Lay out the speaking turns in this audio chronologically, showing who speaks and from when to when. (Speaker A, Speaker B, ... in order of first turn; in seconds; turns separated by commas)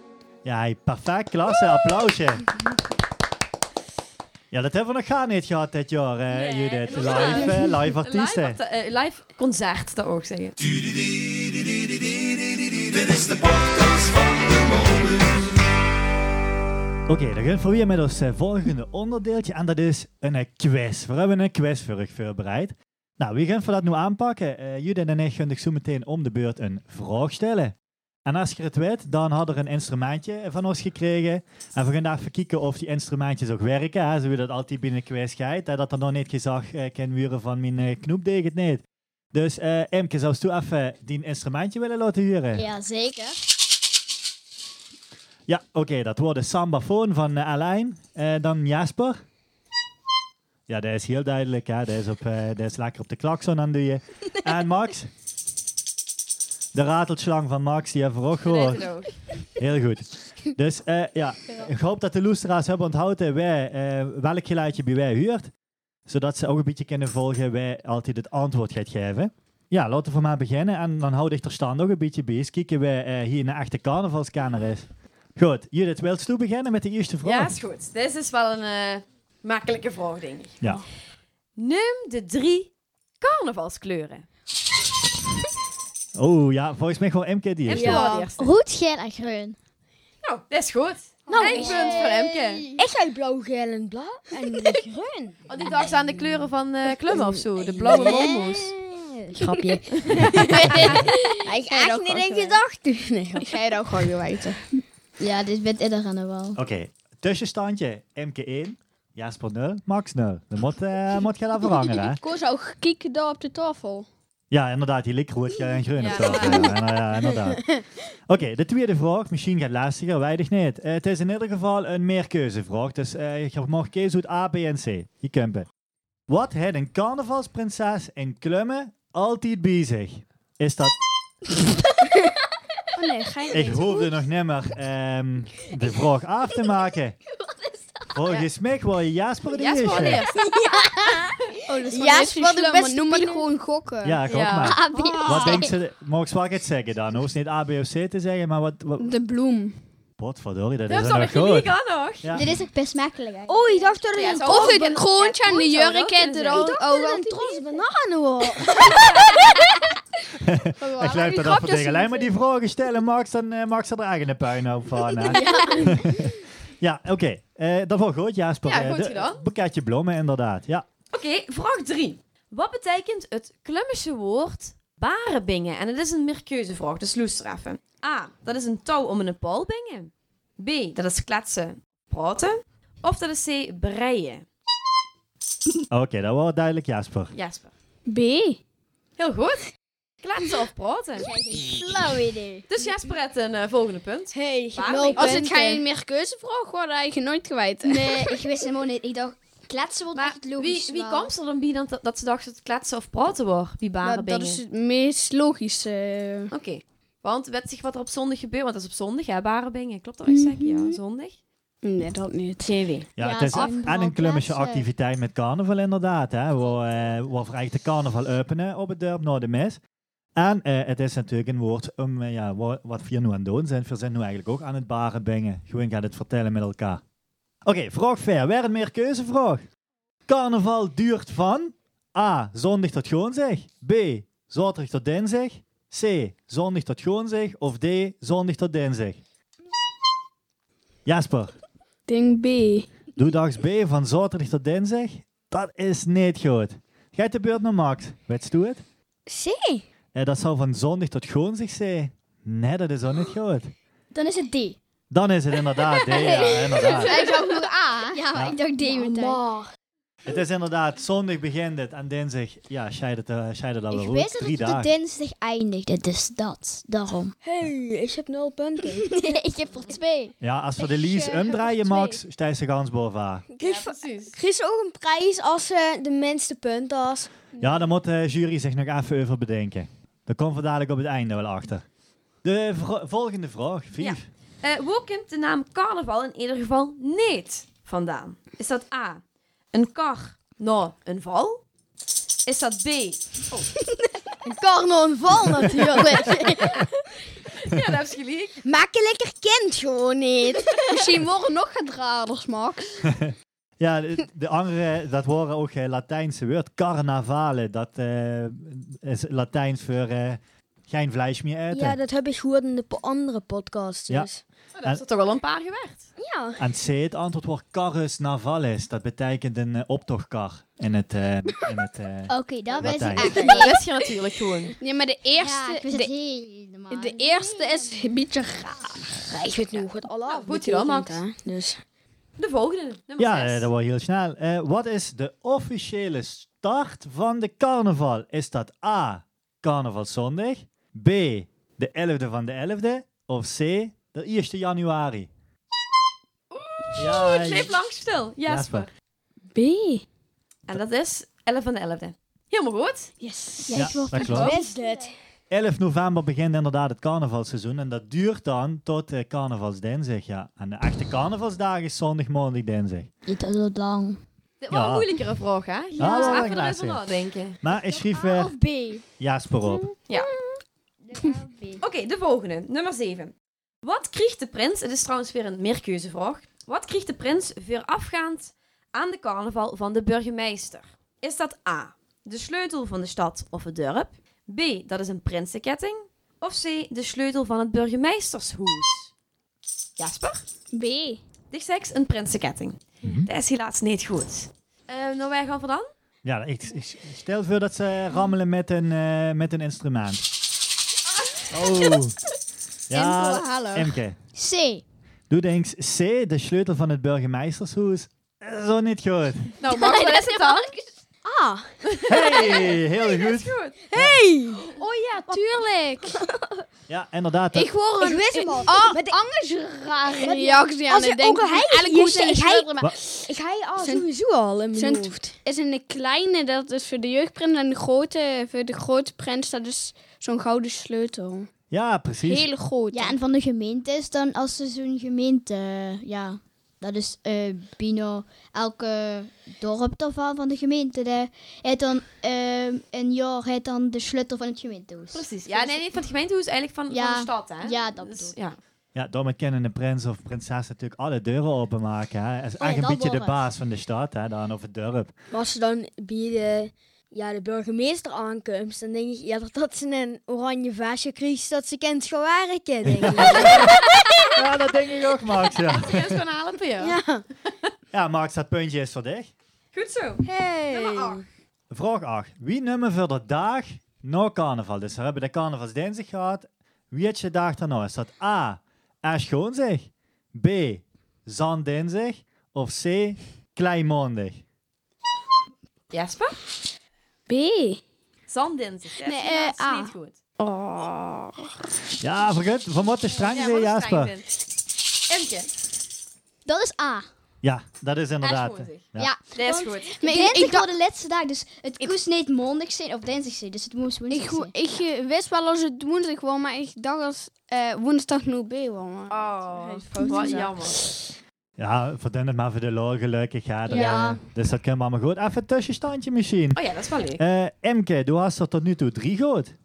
Speaker A: 0.4-2.5, Speaker A: 4.5-8.6, Speaker B: 6.3-10.5, Speaker C: 10.6-15.5, Speaker A: 17.1-42.6, Speaker D: 42.5-43.4, Speaker A: 45.5-49.2, Speaker A: 50.7-55.1, Speaker A: 56.7-58.9, Speaker B: 58.4-59.2, Speaker A: 59.5-65.5, Speaker A: 66.1-77.5, Speaker B: 77.2-80.6, Speaker B: 81.6-84.2, Speaker A: 86.2-88.1, Speaker B: 87.7-88.5, Speaker E: 87.7-88.3, Speaker D: 88.3-89.5, Speaker B: 90.2-92.7, Speaker E: 91.3-92.2, Speaker D: 91.3-92.8, Speaker E: 92.8-95.4, Speaker B: 95.5-98.8, Speaker D: 97.8-100.9, Speaker E: 99.3-103.6, Speaker B: 99.9-101.0, Speaker F: 100.5-102.6, Speaker F: 103.4-104.6, Speaker D: 105.2-106.6, Speaker A: 106.5-112.2, Speaker F: 112.2-114.1, Speaker A: 114.5-125.7, Speaker B: 116.0-116.7, Speaker A: 126.3-131.0, Speaker F: 132.9-134.2, Speaker A: 133.5-137.2, Speaker D: 137.5-138.1, Speaker A: 138.1-140.2, Speaker B: 139.5-140.5, Speaker D: 140.5-141.4, Speaker F: 141.7-144.2, Speaker E: 141.9-143.4, Speaker A: 144.0-149.1, Speaker B: 144.3-144.8, Speaker D: 144.6-145.7, Speaker F: 149.0-149.8, Speaker A: 150.2-151.7, Speaker B: 150.9-152.3, Speaker A: 152.2-152.5, Speaker D: 152.3-154.0, Speaker E: 153.5-155.0, Speaker B: 154.2-156.7, Speaker F: 154.4-157.6, Speaker E: 156.5-159.1, Speaker F: 158.8-159.2, Speaker A: 160.4-170.8, Speaker F: 160.8-162.3, Speaker E: 165.3-165.9, Speaker F: 165.3-165.8, Speaker B: 168.7-169.4, Speaker B: 171.1-184.5, Speaker A: 185.9-187.3, Speaker B: 187.3-187.7, Speaker F: 188.1-188.6, Speaker B: 189.2-189.6, Speaker B: 190.2-191.3, Speaker D: 191.2-192.7, Speaker B: 192.7-195.5, Speaker E: 194.3-195.8, Speaker F: 195.2-198.4, Speaker D: 197.8-201.3, Speaker B: 200.1-204.6, Speaker F: 204.0-206.5, Speaker B: 206.5-211.4, Speaker D: 210.3-211.0, Speaker F: 211.8-212.7, Speaker B: 212.6-213.1, Speaker A: 213.2-219.8, Speaker D: 213.2-214.9, Speaker A: 220.3-227.0, Speaker A: 227.7-229.7, Speaker A: 230.3-239.2, Speaker A: 241.1-241.5, Speaker F: 242.1-242.9, Speaker A: 243.2-248.8, Speaker E: 249.3-249.8, Speaker A: 250.2-253.7, Speaker D: 254.1-254.8, Speaker A: 255.1-257.2, Speaker D: 256.1-259.4, Speaker F: 257.1-257.7, Speaker E: 258.9-259.7, Speaker A: 260.2-264.9, Speaker D: 263.9-267.3, Speaker E: 267.4-269.3, Speaker D: 269.0-270.4, Speaker A: 270.4-273.4, Speaker F: 270.8-272.2, Speaker E: 273.5-277.3, Speaker B: 273.6-274.4, Speaker A: 277.6-281.9, Speaker A: 282.4-284.2, Speaker B: 284.0-289.2, Speaker B: 289.7-291.6, Speaker B: 292.5-293.7, Speaker E: 294.4-296.9, Speaker B: 297.5-298.6, Speaker E: 298.6-301.0, Speaker F: 300.8-303.1, Speaker A: 303.0-312.0, Speaker E: 311.7-314.4, Speaker B: 314.8-316.1, Speaker E: 316.2-316.6, Speaker A: 316.6-323.3, Speaker D: 322.3-323.8, Speaker B: 322.8-324.8, Speaker F: 324.8-326.1, Speaker D: 325.4-328.0, Speaker F: 326.9-329.3, Speaker E: 329.3-331.8, Speaker B: 330.3-331.2, Speaker B: 332.4-333.7, Speaker A: 333.2-345.3, Speaker B: 346.5-348.9, Speaker A: 347.0-347.8, Speaker A: 348.5-348.9, Speaker F: 349.5-350.0, Speaker B: 350.7-353.1, Speaker F: 353.2-353.9, Speaker D: 353.7-355.0, Speaker A: 353.7-354.5, Speaker B: 354.2-354.5, Speaker E: 354.2-355.1, Speaker A: 355.5-363.1, Speaker D: 363.3-364.2, Speaker B: 364.6-367.6, Speaker A: 364.7-365.1, Speaker A: 366.0-367.0, Speaker D: 366.0-366.5, Speaker A: 367.6-368.6, Speaker D: 367.9-369.0, Speaker A: 369.2-369.9, Speaker D: 371.0-371.8, Speaker B: 371.8-389.1, Speaker B: 390.0-390.4, Speaker F: 390.7-391.2, Speaker B: 391.5-395.9, Speaker A: 393.0-393.3, Speaker A: 396.2-400.3, Speaker A: 401.5-402.2, Speaker A: 402.9-404.2, Speaker F: 402.9-403.9, Speaker D: 404.3-404.8, Speaker A: 405.3-409.5, Speaker B: 409.6-410.8, Speaker D: 409.7-410.8, Speaker E: 411.2-411.8, Speaker B: 411.8-413.8, Speaker A: 412.1-414.2, Speaker E: 413.9-414.7, Speaker F: 414.8-416.2, Speaker A: 416.9-417.7, Speaker F: 417.5-422.9, Speaker E: 418.0-419.2, Speaker E: 420.1-425.3, Speaker F: 423.8-424.1, Speaker F: 424.8-431.5, Speaker A: 431.7-432.5, Speaker F: 432.2-433.2, Speaker D: 432.9-445.8, Speaker B: 445.1-448.6, Speaker D: 446.9-448.3, Speaker A: 448.9-455.1, Speaker D: 452.6-453.4, Speaker E: 455.3-463.8, Speaker A: 462.8-466.2, Speaker B: 465.7-467.0, Speaker E: 466.8-467.2, Speaker A: 467.9-469.3, Speaker B: 469.7-471.2, Speaker E: 470.2-471.2, Speaker A: 471.7-484.4, Speaker B: 485.9-486.4, Speaker F: 487.3-487.8, Speaker B: 488.3-490.2, Speaker F: 489.0-491.5, Speaker A: 492.0-494.1, Speaker B: 493.2-494.4, Speaker B: 495.1-495.5, Speaker D: 496.4-497.1, Speaker A: 497.4-499.1, Speaker B: 498.2-500.1, Speaker D: 499.0-504.5, Speaker F: 500.0-500.7, Speaker F: 504.1-510.5, Speaker B: 509.1-510.8, Speaker A: 511.6-516.6, Speaker D: 513.7-514.2, Speaker E: 513.7-514.1, Speaker B: 516.5-517.2, Speaker A: 517.2-519.5